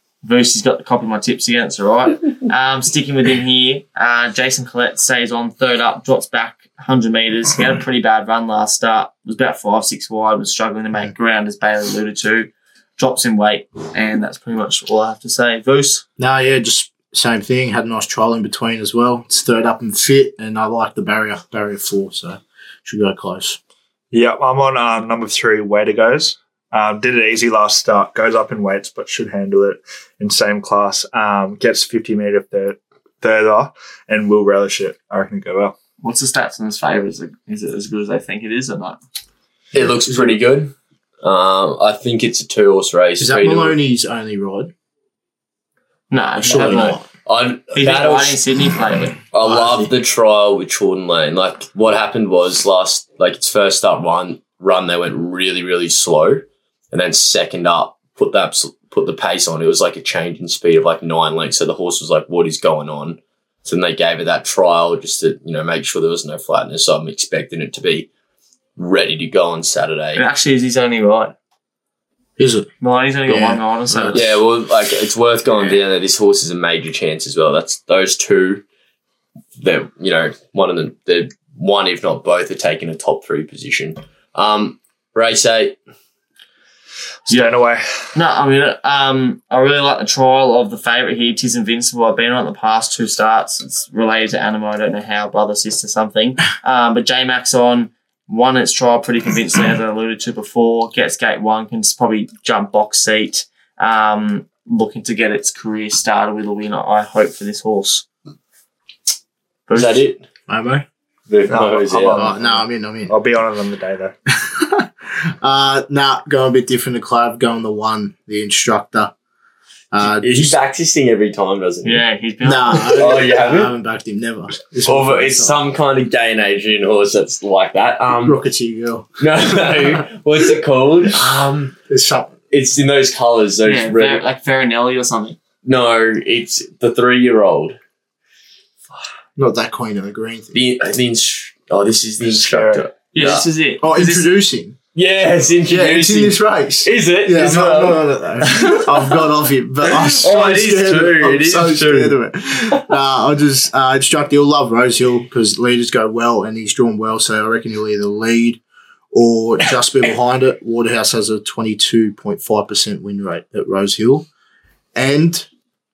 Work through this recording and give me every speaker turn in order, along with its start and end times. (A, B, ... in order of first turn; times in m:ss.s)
0:00.2-0:16.0 A
0:16.2-0:23.6 B
0:24.1-0:35.8 C
0:36.0-0:39.0 A
0:39.7-0:43.8 D
0:39.8-0:40.4 B
0:43.2-0:44.7 B
0:46.1-0:47.0 A
0:46.4-0:47.1 B
0:46.5-0:48.4 D
0:47.7-0:49.2 A
0:49.3-1:08.1 D
0:49.4-0:49.9 B
1:08.8-1:10.2 D
1:10.1-1:11.3 A
1:12.4-1:12.7 B
1:12.8-1:14.4 A
1:13.2-1:14.3 B
1:14.1-1:18.6 D
1:19.6-1:25.8 D
1:27.3-1:27.8 C
1:28.1-1:48.0 A
1:49.7-1:50.0 A
1:49.7-1:50.2 D
1:50.5-1:50.8 B
1:51.3-1:52.3 D
1:51.4-1:54.2 C
1:52.1-1:53.1 B
1:54.4-1:54.9 B
1:55.4-1:59.1 B
1:59.9-2:00.5 B
2:00.0-2:02.0 D
2:01.8-2:03.2 A
2:02.4-2:05.6 B
2:02.9-2:03.7 D
2:04.8-2:08.4 D
2:08.2-2:10.0 B
2:09.2-2:11.8 D
2:11.9-2:12.3 B
2:12.5-2:14.2 D
2:13.6-2:15.4 A
2:15.6-2:17.8 D
2:19.4-2:20.6 B
2:20.5-2:23.4 D
2:22.2-2:22.9 C
2:23.1-2:24.3 A
2:23.8-2:24.8 B
2:24.9-2:29.3 D
2:25.7-2:38.6 B
2:29.8-2:32.8 D
2:39.1-2:44.3 B
2:44.9-2:45.5 B